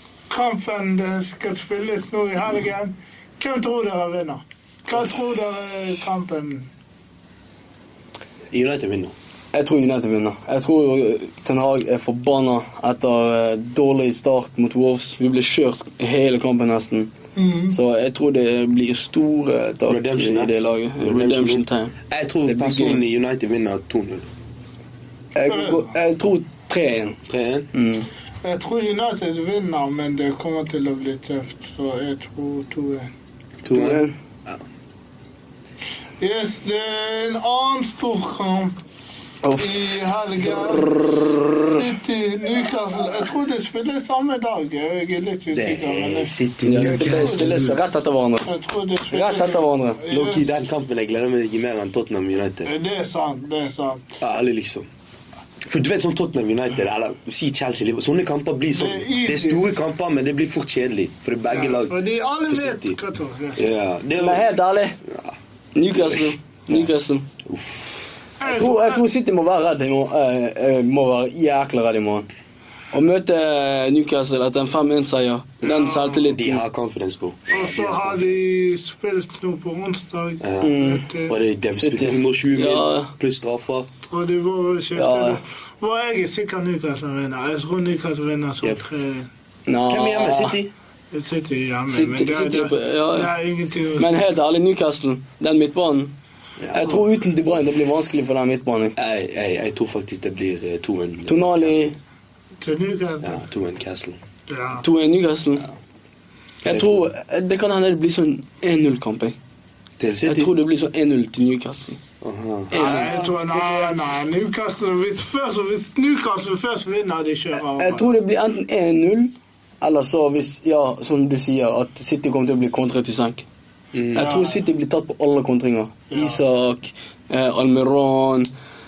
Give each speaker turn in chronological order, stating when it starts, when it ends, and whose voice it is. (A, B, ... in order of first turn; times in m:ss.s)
0:00.3-0:06.7 A
0:08.5-0:09.2 B
0:09.5-0:17.1 C
0:17.4-0:17.8 A
0:17.7-0:23.0 C
0:19.9-0:24.3 B
0:25.4-0:27.2 C
0:25.5-0:25.9 A
0:27.3-0:27.7 B
0:27.7-0:28.1 C
0:28.4-0:33.1 A
0:33.6-0:34.6 B
0:33.7-0:34.2 C
0:36.2-0:38.8 A
0:39.4-0:39.7 C
0:39.6-0:47.8 A
0:40.4-0:41.8 C
0:45.5-0:47.8 B
0:46.6-0:48.5 C
0:48.4-0:50.5 A
0:49.1-0:50.0 C
0:50.1-0:52.7 B
0:52.6-0:54.0 A
0:54.2-0:54.9 B
0:55.6-1:02.0 B
0:58.7-0:59.7 A
1:01.5-1:03.7 A
1:02.5-1:03.0 B
1:03.6-1:04.5 B
1:04.2-1:05.0 C
1:05.0-1:05.4 B
1:05.8-1:07.3 C
1:05.9-1:06.9 B
1:07.4-1:08.0 B
1:08.4-1:09.1 A
1:08.4-1:12.3 C
1:12.9-1:16.6 C
1:15.7-1:16.2 A
1:16.2-1:18.3 B
1:17.5-1:21.4 A
1:20.4-1:23.9 B
1:20.6-1:21.1 C
1:21.8-1:23.1 C
1:24.1-1:29.3 A
1:25.0-1:25.4 C
1:29.7-1:30.6 C
1:29.9-1:30.7 B
1:31.1-1:34.1 A
1:31.9-1:33.3 C
1:34.0-1:36.1 C
1:36.6-1:37.0 B
1:36.7-1:39.0 C
1:39.0-1:41.8 B
1:41.3-1:42.0 C
1:42.6-1:43.4 A
1:43.2-1:44.2 B
1:44.5-1:44.8 A
1:44.8-1:45.7 C
1:46.6-1:49.4 C
1:46.6-1:47.0 B
1:50.0-1:50.5 B
1:50.2-1:52.0 C
1:52.2-1:53.8 B
1:52.7-1:53.9 C
1:52.7-1:58.1 A
1:57.8-2:03.4 C
2:03.9-2:04.3 B
2:04.1-2:08.5 C
2:04.2-2:04.7 A
2:06.1-2:06.4 A